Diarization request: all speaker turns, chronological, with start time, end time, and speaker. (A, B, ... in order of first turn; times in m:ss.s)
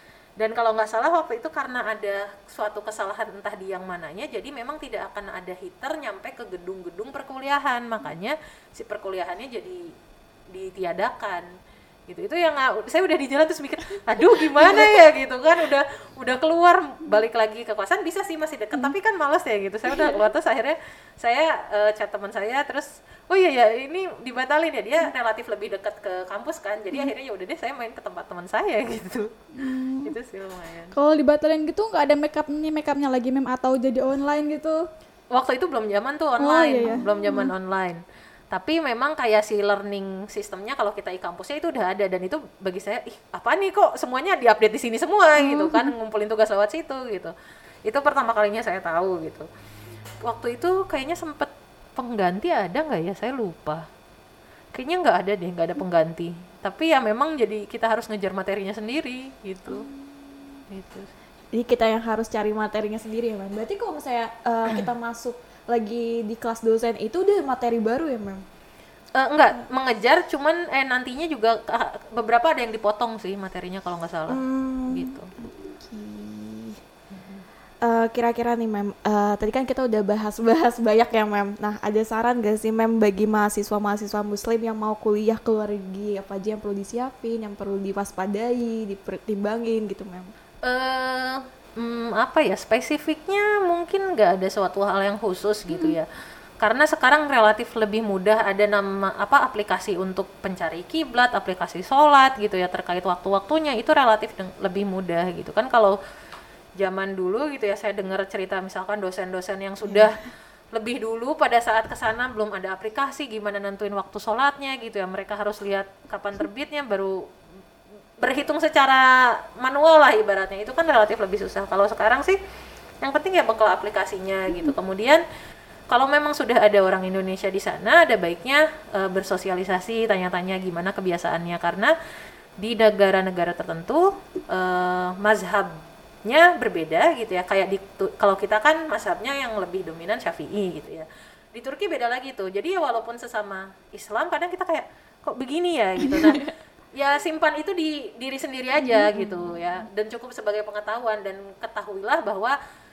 0:00.4-0:09.9 A
0:10.5-0:11.5 A
0:12.1-0:29.3 A
0:29.6-0:30.1 B
0:30.0-0:30.9 A
0:30.9-0:34.8 B
0:35.3-0:47.3 A
0:36.4-0:37.5 B
0:45.4-0:45.9 B
0:47.8-0:49.5 A
0:50.2-0:53.8 A
0:54.7-0:59.9 A
1:00.7-1:01.1 A
1:01.5-1:08.4 C
1:09.2-1:15.3 A
1:14.3-1:16.8 C
1:17.1-1:17.4 A
1:17.8-1:30.3 C
1:30.6-1:36.1 A
1:36.6-1:45.9 A
1:46.8-1:50.2 A
1:50.7-1:57.2 A
1:58.2-2:02.4 A
2:03.0-2:05.2 A
2:05.9-2:11.9 A
2:12.6-2:32.6 A
2:26.1-2:26.4 C